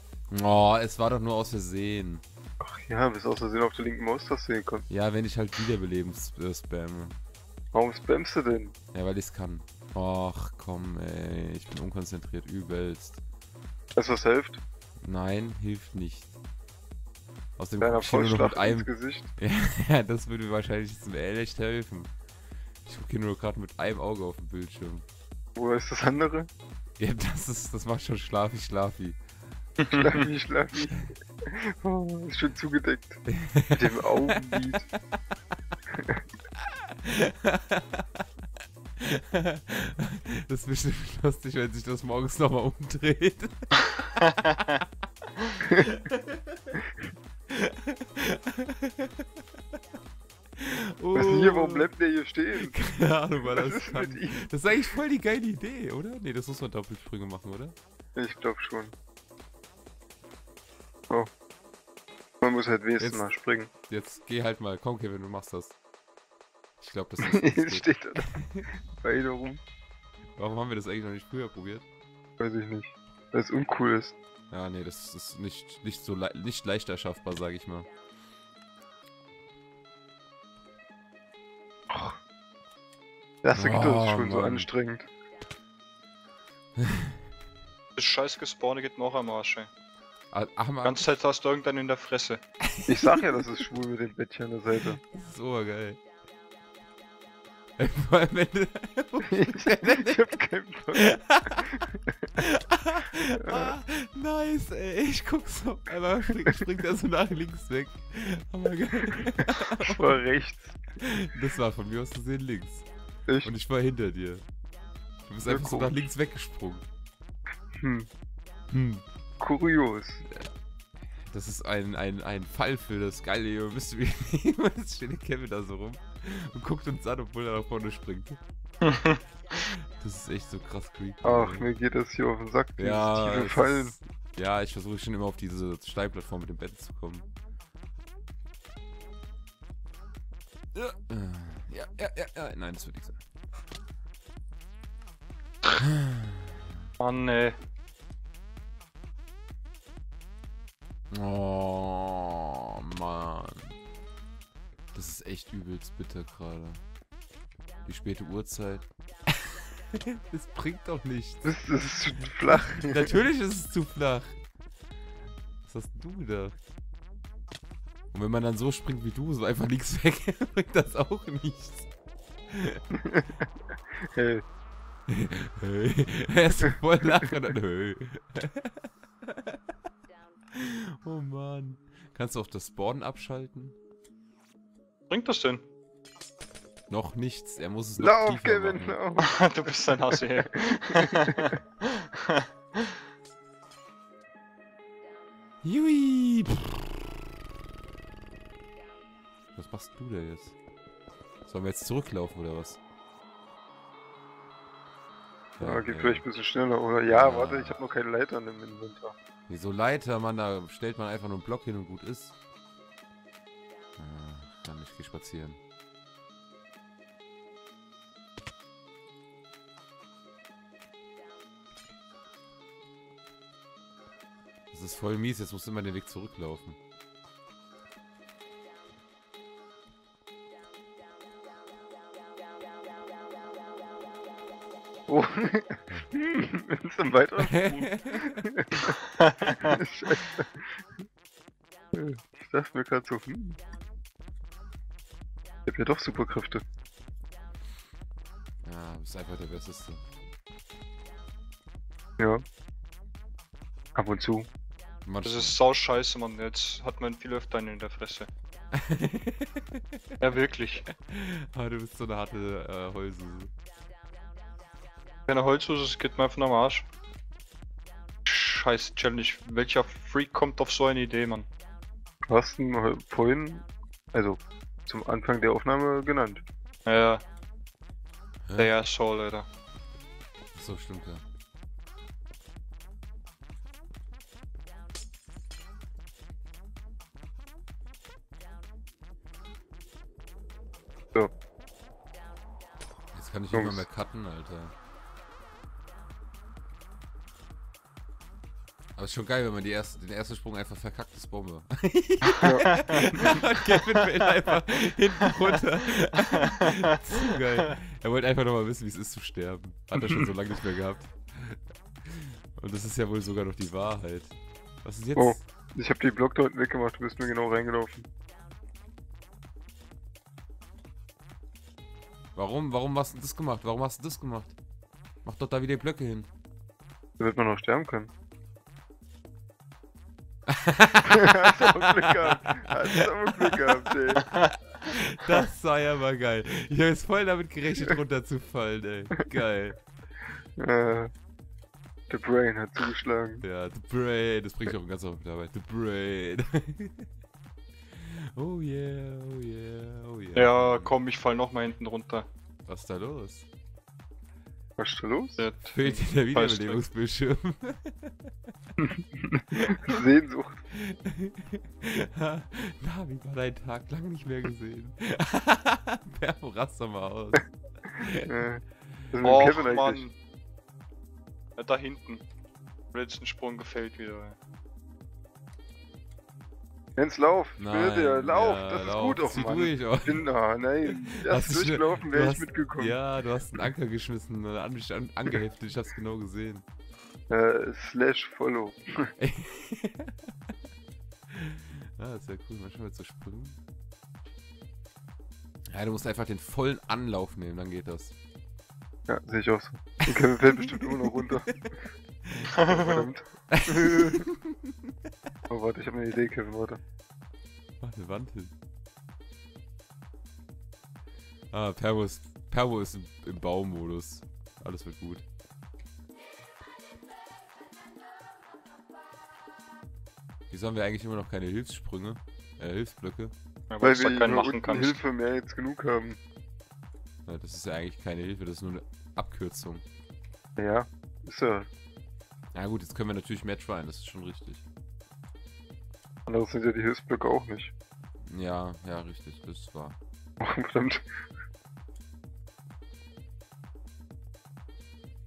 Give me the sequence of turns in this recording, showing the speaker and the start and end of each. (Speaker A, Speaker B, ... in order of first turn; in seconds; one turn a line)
Speaker A: 0.3-2.2
Speaker B: 2.6-4.8
Speaker A: 4.9-7.2
Speaker B: 7.7-8.7
Speaker A: 8.9-13.2
Speaker B: 13.9-14.6
Speaker A: 15.0-16.3
Speaker A: 17.6-22.1
Speaker B: 17.8-19.3
Speaker A: 22.8-25.1
Speaker B: 25.6-26.5
Speaker A: 27.0-29.2
Speaker B: 29.9-34.9
Speaker A: 33.3-34.6
Speaker A: 37.0-38.2
Speaker A: 39.0-43.8
Speaker A: 45.8-46.6
Speaker A: 47.5-49.2
Speaker A: 50.6-51.9
Speaker B: 51.1-52.8
Speaker A: 52.5-57.8
Speaker B: 53.4-54.4
Speaker B: 58.1-58.9
Speaker B: 62.4-63.7
Speaker A: 63.9-65.8
Speaker A: 66.8-68.6
Speaker B: 67.2-68.3
Speaker B: 69.0-69.6
Speaker A: 70.3-71.8
Speaker B: 72.4-74.1
Speaker A: 74.5-77.9
Speaker B: 81.9-82.2
Speaker B: 83.4-85.1
Speaker A: 83.5-84.7
Speaker C: 88.0-89.7
Speaker A: 90.3-91.1
Speaker C: 90.8-92.4
Speaker B: 92.9-95.0
Speaker A: 94.9-96.0
Speaker A: 97.8-100.3
Speaker B: 99.3-101.8
Speaker A: 100.9-101.7
Speaker A: 102.4-110.2
Speaker B: 103.3-103.7
Speaker B: 109.8-110.8
Speaker A: 111.0-112.9
Speaker A: 113.4-114.4
Speaker A: 115.3-116.8
Speaker B: 115.5-116.0
Speaker B: 117.8-118.1
Speaker A: 118.7-119.0
Speaker B: 119.4-120.2
Speaker A: 121.2-128.4
Speaker C: 128.8-129.2
Speaker A: 129.5-131.7
Speaker B: 131.2-133.9
Speaker A: 132.8-137.3
Speaker A: 140.7-143.2
Speaker A: 145.8-146.6
Speaker C: 147.0-147.6
Speaker A: 151.1-153.7
Speaker A: 154.9-156.8
Speaker A: 157.8-161.6
Speaker B: 161.4-163.1
Speaker A: 162.2-164.3
Speaker A: 165.7-166.6
Speaker A: 168.1-171.9
Speaker A: 172.5-172.8
Speaker B: 173.0-173.4
Speaker B: 174.1-174.4
Speaker A: 175.1-179.6
Speaker A: 180.5-183.7
Speaker C: 185.1-185.6
Speaker A: 186.9-189.0
Speaker B: 188.0-191.5
Speaker C: 189.2-192.9
Speaker A: 195.6-196.8
Speaker A: 199.6-200.5
Speaker A: 201.4-202.8
Speaker A: 205.6-206.2
Speaker B: 205.6-209.1
Speaker A: 207.1-207.8
Speaker A: 209.5-212.4
Speaker A: 214.0-215.6
Speaker A: 224.7-226.8
Speaker B: 235.1-238.9
Speaker A: 237.4-238.4
Speaker C: 239.4-239.7
Speaker B: 239.6-240.8
Speaker B: 241.9-243.6
Speaker B: 245.7-246.6
Speaker A: 248.6-250.0
Speaker B: 253.9-254.5
Speaker A: 255.1-255.6
Speaker C: 255.2-258.3
Speaker A: 258.7-259.8
Speaker C: 260.2-260.9
Speaker A: 260.9-263.5
Speaker C: 265.3-266.9
Speaker C: 268.2-271.5
Speaker B: 272.3-276.4
Speaker C: 276.9-277.2
Speaker A: 278.5-278.7
Speaker C: 278.6-279.5
Speaker A: 280.5-281.2
Speaker A: 293.1-294.7
Speaker B: 293.5-293.8
Speaker A: 298.9-315.4
Speaker B: 302.4-303.2
Speaker B: 315.1-318.1
Speaker A: 322.3-324.6
Speaker A: 325.2-326.3
Speaker B: 327.2-328.1
Speaker A: 330.5-339.8
Speaker B: 331.1-334.3
Speaker B: 340.6-341.1
Speaker B: 342.1-343.4
Speaker A: 343.4-347.1
Speaker A: 348.0-350.9
Speaker C: 350.3-352.3
Speaker A: 352.6-353.5
Speaker B: 354.8-355.4
Speaker C: 355.4-356.8
Speaker A: 355.7-358.3
Speaker B: 358.8-360.6
Speaker A: 359.6-359.9
Speaker A: 360.7-368.3
Speaker B: 368.2-370.0
Speaker C: 369.2-370.1
Speaker C: 371.6-372.2
Speaker C: 372.9-374.4
Speaker B: 376.9-383.0
Speaker A: 377.6-380.3
Speaker A: 380.8-386.6
Speaker B: 387.3-389.1
Speaker A: 389.2-390.1
Speaker A: 391.3-393.6
Speaker A: 395.7-398.1
Speaker B: 399.1-401.8
Speaker A: 400.1-401.3
Speaker B: 402.6-404.3
Speaker C: 402.6-403.1
Speaker A: 403.5-404.3
Speaker B: 405.5-406.8
Speaker A: 407.8-408.5
Speaker A: 411.5-415.2
Speaker A: 420.5-423.3
Speaker C: 423.7-425.0
Speaker B: 423.8-426.2
Speaker A: 427.2-429.8
Speaker B: 430.6-431.7
Speaker A: 432.5-434.6
Speaker B: 436.3-437.7
Speaker A: 438.2-440.0
Speaker B: 440.4-441.0